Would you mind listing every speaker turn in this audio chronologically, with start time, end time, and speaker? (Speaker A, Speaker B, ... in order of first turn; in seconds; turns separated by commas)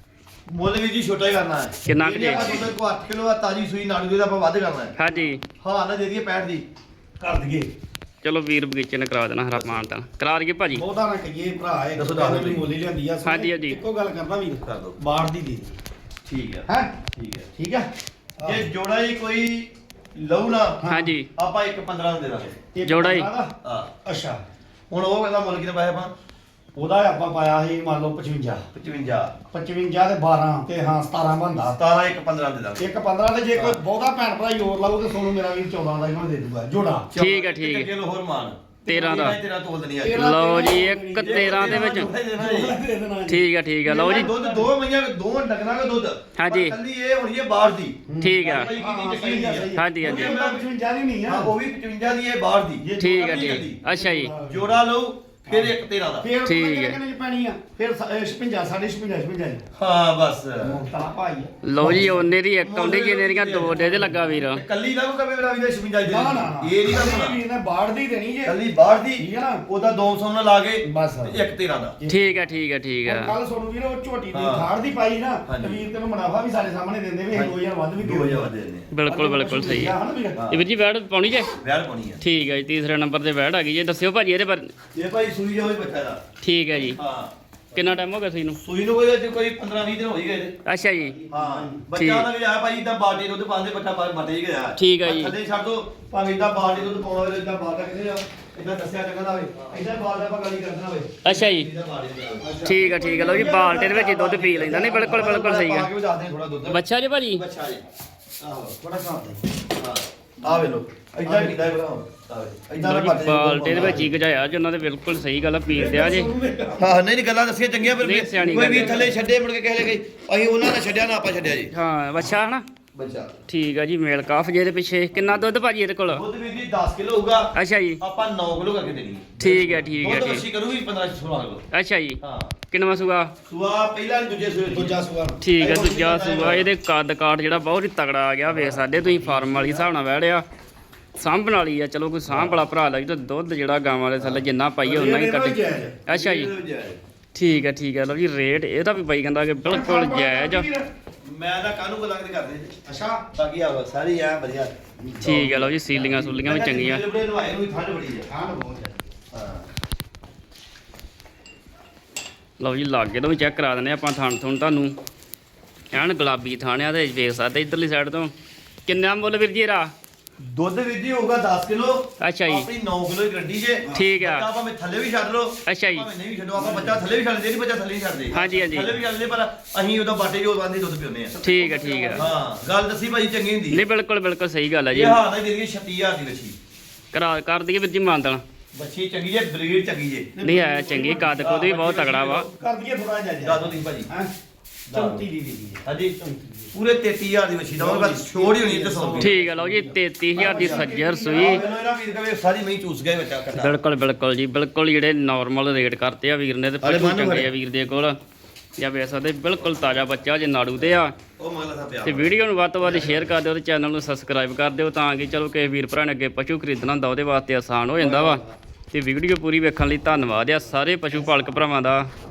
Speaker A: 0.5-5.0, Speaker B: 1.9-2.6, Speaker B: 5.0-5.4, Speaker A: 5.6-6.7, Speaker C: 7.2-7.7, Speaker B: 8.2-10.8, Speaker A: 9.5-9.9, Speaker C: 10.7-15.8, Speaker A: 12.0-12.7, Speaker B: 13.2-13.8, Speaker A: 14.6-15.0, Speaker A: 16.3-17.5, Speaker C: 16.7-17.0, Speaker C: 17.5-18.7, Speaker A: 18.4-20.8, Speaker C: 20.8-21.1, Speaker B: 20.9-21.3, Speaker A: 21.4-22.6, Speaker C: 22.7-24.4, Speaker B: 22.8-23.3, Speaker A: 23.6-23.9, Speaker A: 24.9-26.1, Speaker C: 26.8-28.7, Speaker A: 28.7-29.3, Speaker C: 29.5-31.8, Speaker A: 31.6-32.8, Speaker C: 32.8-37.2, Speaker A: 37.1-40.3, Speaker B: 37.2-37.9, Speaker B: 38.9-39.4, Speaker C: 38.9-39.2, Speaker C: 40.0-44.7, Speaker B: 40.1-42.1, Speaker A: 41.2-42.8, Speaker B: 43.3-44.3, Speaker A: 43.9-50.7, Speaker B: 46.4-46.8, Speaker C: 48.1-51.5, Speaker B: 48.2-48.7, Speaker B: 49.7-50.4, Speaker A: 51.2-53.8, Speaker C: 52.8-54.7, Speaker B: 53.0-54.3, Speaker A: 54.4-56.3, Speaker C: 55.5-59.7, Speaker B: 56.5-57.0, Speaker A: 59.8-60.8, Speaker C: 60.6-62.2, Speaker B: 61.6-64.6, Speaker A: 61.8-67.4, Speaker C: 63.9-64.3, Speaker C: 66.0-68.6, Speaker A: 68.4-72.0, Speaker C: 69.2-69.7, Speaker C: 70.8-71.4, Speaker C: 72.0-72.3, Speaker B: 72.1-73.3, Speaker C: 73.0-78.5, Speaker A: 74.3-74.7, Speaker A: 75.5-75.8, Speaker A: 77.3-78.9, Speaker B: 78.9-80.0, Speaker C: 79.1-80.5, Speaker A: 80.3-80.6, Speaker B: 80.5-81.5, Speaker A: 81.6-82.2, Speaker B: 82.2-84.7, Speaker A: 85.0-86.2, Speaker B: 86.4-87.0, Speaker A: 86.8-88.0, Speaker B: 87.7-88.6, Speaker A: 88.6-90.6, Speaker B: 90.7-91.2, Speaker C: 91.0-91.9, Speaker A: 91.3-106.8, Speaker B: 92.0-92.3, Speaker B: 94.8-95.3, Speaker B: 101.2-101.7, Speaker C: 102.4-103.7, Speaker B: 102.7-105.9, Speaker C: 104.7-105.2, Speaker B: 106.7-107.4, Speaker A: 107.3-107.8, Speaker A: 108.4-108.8, Speaker C: 108.8-109.4, Speaker A: 109.8-114.1, Speaker C: 110.4-110.7, Speaker C: 111.2-111.7, Speaker B: 112.8-116.3, Speaker C: 113.7-114.1, Speaker C: 115.7-117.0, Speaker A: 116.8-121.7, Speaker B: 118.0-119.1, Speaker C: 118.7-119.1, Speaker B: 121.7-122.6, Speaker A: 122.9-123.4, Speaker B: 123.5-126.2, Speaker A: 126.1-131.7, Speaker B: 127.5-128.0, Speaker B: 129.4-130.4, Speaker B: 131.7-132.2, Speaker A: 132.2-132.5, Speaker B: 132.7-133.3, Speaker A: 133.5-135.0, Speaker C: 134.7-135.5, Speaker B: 135.4-140.4, Speaker A: 135.6-136.7, Speaker A: 139.0-139.9, Speaker B: 141.2-146.5, Speaker A: 142.3-142.6, Speaker A: 144.2-144.4, Speaker C: 144.8-146.1, Speaker A: 146.1-147.0, Speaker B: 147.3-150.7, Speaker C: 149.6-150.9, Speaker A: 151.2-152.8, Speaker C: 152.8-153.2, Speaker A: 153.3-158.3, Speaker C: 155.0-155.4, Speaker B: 155.2-157.0, Speaker C: 158.3-159.0, Speaker A: 159.3-159.7, Speaker B: 162.6-164.9, Speaker B: 165.9-168.3, Speaker B: 168.9-169.9, Speaker A: 170.4-181.4, Speaker B: 172.2-172.7, Speaker B: 173.9-174.5, Speaker B: 175.7-176.1, Speaker C: 176.6-177.0, Speaker B: 178.3-178.9, Speaker C: 181.3-182.4, Speaker B: 181.4-182.2, Speaker A: 182.1-183.8, Speaker B: 183.7-185.2, Speaker A: 184.9-186.6, Speaker B: 187.1-188.4, Speaker A: 188.7-190.3, Speaker C: 190.4-191.5, Speaker B: 190.4-192.5, Speaker A: 191.3-192.5, Speaker C: 192.4-194.3, Speaker A: 193.4-194.1, Speaker A: 194.9-195.3, Speaker C: 194.9-196.7, Speaker A: 195.8-196.2, Speaker A: 196.7-199.4, Speaker C: 197.8-201.8, Speaker B: 199.2-201.6, Speaker A: 200.4-203.8, Speaker B: 203.5-208.2, Speaker A: 206.8-207.5, Speaker B: 208.8-211.1, Speaker A: 210.8-213.3, Speaker B: 212.1-222.1, Speaker A: 218.0-218.4, Speaker C: 221.1-221.6